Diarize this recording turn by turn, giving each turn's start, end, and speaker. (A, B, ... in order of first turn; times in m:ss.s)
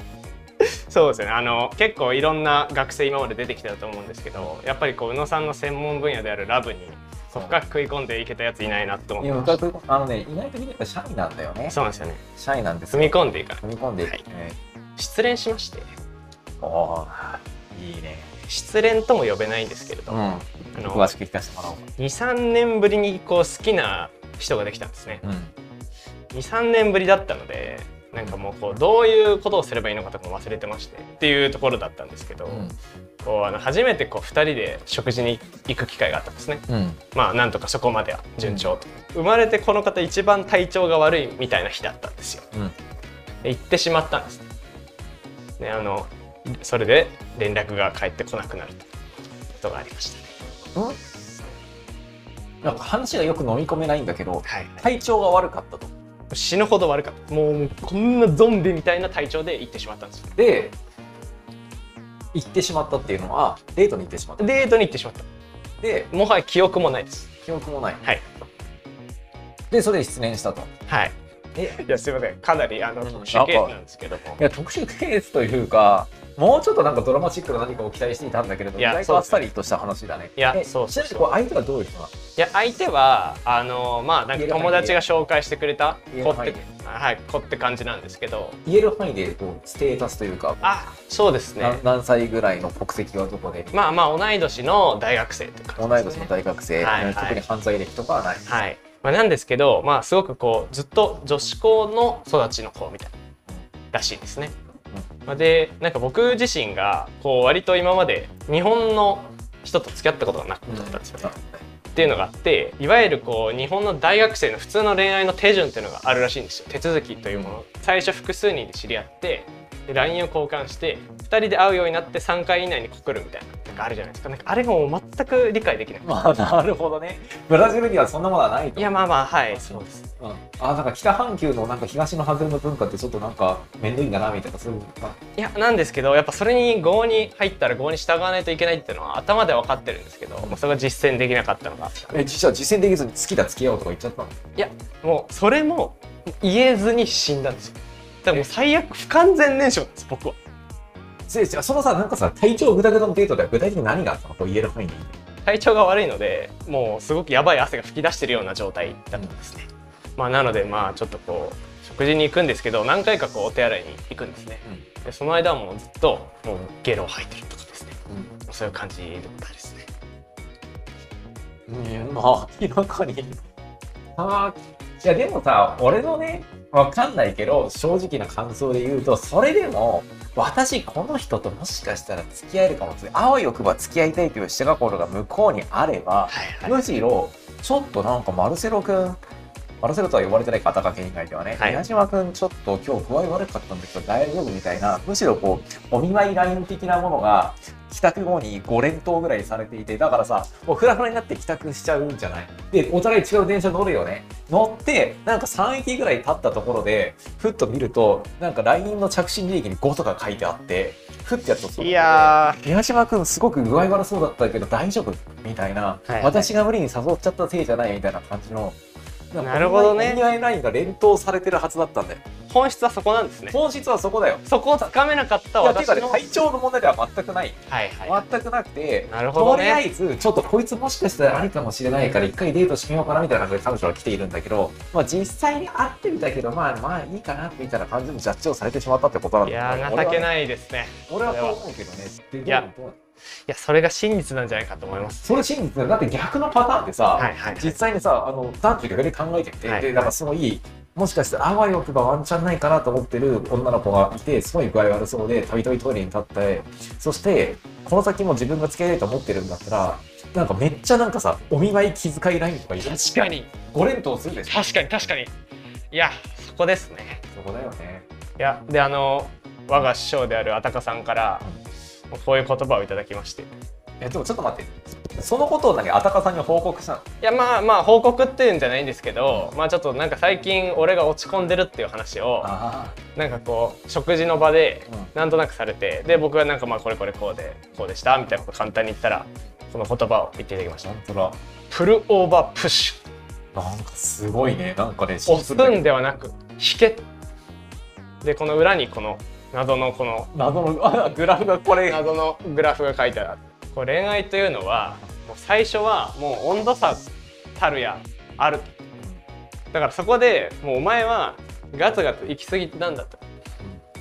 0:00.6-0:09.6 A
0:07.3-0:07.6 B
0:09.2-0:11.8 B
0:11.7-0:12.2 A
0:12.4-0:14.6 B
0:12.9-0:14.2 A
0:15.0-0:15.9 A
0:16.6-0:18.3 B
0:18.5-0:20.2 A
0:20.1-0:21.9 B
0:20.7-0:21.2 A
0:22.0-0:25.2 A
0:25.2-0:25.5 B
0:26.3-0:32.7 A
0:28.2-0:28.4 B
0:32.5-0:32.8 B
0:33.2-0:42.5 A
0:36.7-0:37.0 B
0:38.4-0:38.7 B
0:43.4-0:44.5 A
0:45.6-0:48.8 A
0:49.6-0:50.3 A
0:52.6-0:55.9 B
0:54.4-0:54.8 A
0:56.3-1:00.3 A
1:00.4-1:00.8 B
1:02.3-1:04.7 B
1:04.4-1:05.3 A
1:05.8-1:06.1 B
1:06.1-1:07.3 A
1:07.4-1:08.0 B
1:09.7-1:10.7 B
1:10.9-1:14.4 A
1:11.6-1:11.8 B
1:13.0-1:13.8 B
1:14.4-1:22.1 B
1:18.8-1:19.5 A
1:20.4-1:21.3 A
1:22.4-1:28.6 A
1:24.3-1:25.0 B
1:26.1-1:26.6 B
1:28.6-1:30.6 B
1:30.6-1:31.8 A
1:31.6-1:33.8 B
1:33.7-1:37.4 A
1:35.8-1:38.5 B
1:38.5-1:43.1 A
1:43.9-1:44.6 A
1:45.3-1:51.3 A
1:50.7-1:52.1 B
1:52.0-2:06.1 A
1:57.3-1:57.6 B
2:06.0-2:15.2 B
2:08.8-2:10.1 A
2:15.4-2:22.0 A
2:22.0-2:24.4 B
2:24.6-2:30.4 A
2:31.3-2:35.1 B
2:35.5-2:49.9 A
2:51.7-2:53.5 B
2:54.2-3:09.2 B
3:06.3-3:06.8 A
3:09.8-3:38.8 B
3:11.6-3:11.8 A
3:31.8-3:32.7 A
3:36.1-3:36.5 A
3:39.3-3:42.2 B
3:39.4-3:40.2 A
3:42.5-3:43.6 A
3:43.5-3:44.9 B
3:44.5-3:46.3 A
3:45.6-4:00.3 B
3:47.7-3:48.2 A
3:49.1-3:49.8 A
3:59.4-4:01.6 A
4:01.1-4:03.0 B
4:03.5-4:05.4 A
4:05.2-4:24.7 B
4:07.2-4:07.8 A
4:09.6-4:10.1 A
4:22.8-4:23.5 A
4:24.5-4:25.3 A
4:25.9-4:27.2 A
4:27.3-4:28.1 B
4:28.4-4:31.4 A
4:32.1-4:33.5 A
4:34.0-4:37.1 B
4:37.2-4:42.5 A
4:42.4-4:43.0 B
4:43.2-4:50.9 A
4:50.8-4:51.4 B
4:51.7-4:53.0 A
4:53.6-4:55.8 B
4:55.3-4:57.1 A
4:58.2-5:00.3 A
5:00.3-5:02.1 B
5:01.8-5:08.7 A
5:09.7-5:13.2 A